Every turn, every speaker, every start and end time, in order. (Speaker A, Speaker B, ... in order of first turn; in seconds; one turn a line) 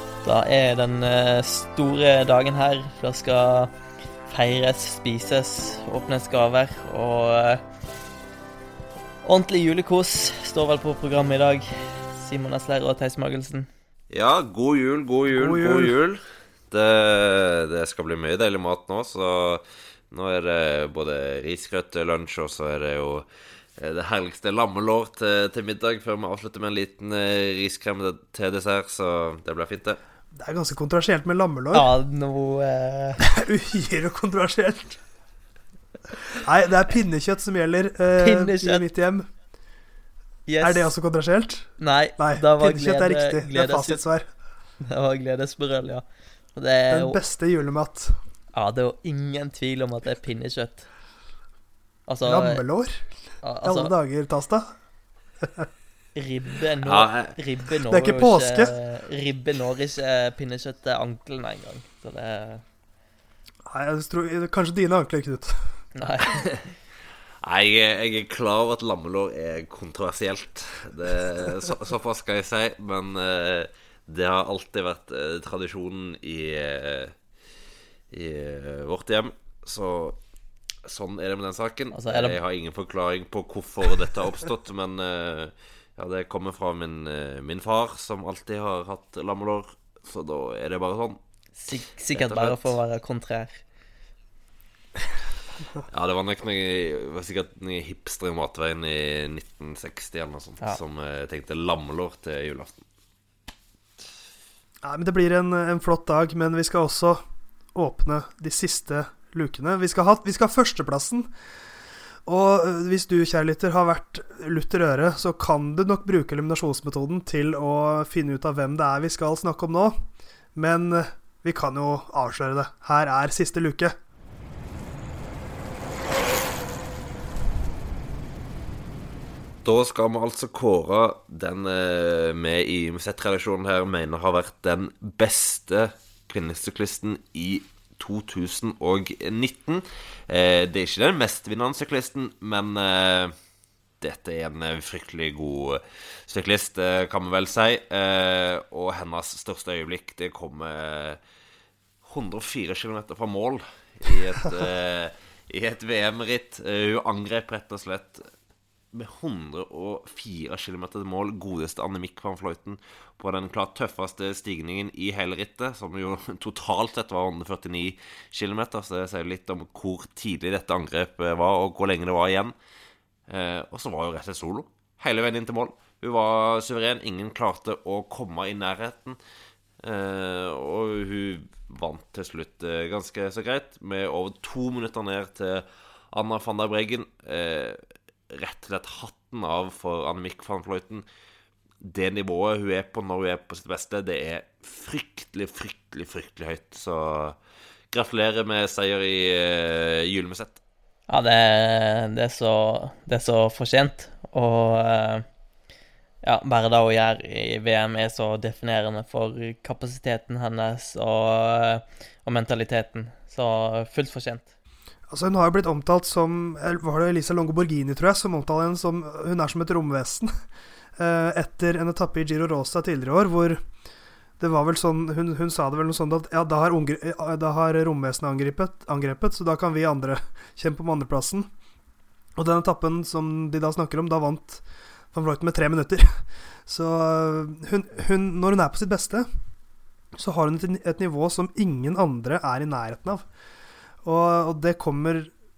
Speaker A: 0.2-3.7
Speaker A: 4.3-7.6
Speaker A: 9.2-13.7
Speaker B: 14.1-16.2
Speaker C: 15.3-15.9
Speaker B: 16.7-23.3
Speaker B: 23.8-30.0
Speaker C: 30.3-31.9
Speaker A: 31.7-33.2
Speaker C: 33.3-35.0
Speaker C: 36.4-39.2
Speaker A: 38.2-38.8
Speaker A: 40.5-40.9
Speaker C: 40.6-44.2
Speaker A: 41.8-44.0
Speaker A: 44.8-46.0
Speaker A: 46.5-47.2
Speaker C: 46.9-48.1
Speaker A: 48.5-50.9
Speaker A: 52.1-52.6
Speaker C: 52.2-53.0
Speaker A: 53.4-53.9
Speaker C: 53.6-54.7
Speaker A: 56.1-62.6
Speaker B: 56.8-57.3
Speaker C: 57.9-58.7
Speaker C: 63.7-65.5
Speaker A: 65.9-66.7
Speaker B: 67.4-77.1
Speaker B: 78.1-80.2
Speaker B: 80.9-91.2
Speaker A: 81.9-82.4
Speaker A: 91.5-93.6
Speaker B: 92.1-92.8
Speaker B: 95.9-102.8
Speaker C: 104.8-107.2
Speaker C: 107.7-111.3
Speaker C: 112.2-119.9
Speaker C: 120.5-123.9
Speaker B: 129.6-143.3
Speaker B: 144.0-151.2
Speaker B: 152.0-158.2
Speaker B: 158.9-172.5
Speaker B: 173.3-179.2
Speaker B: 179.8-187.8
Speaker B: 188.3-191.0
Speaker B: 191.8-197.3
Speaker B: 197.9-200.6
Speaker A: 201.1-205.2
Speaker A: 206.2-214.5
Speaker C: 215.1-220.3
Speaker C: 221.0-223.6
Speaker C: 224.4-231.5
Speaker C: 232.4-236.1
Speaker C: 236.7-239.3
Speaker C: 240.2-243.2
Speaker C: 244.0-245.3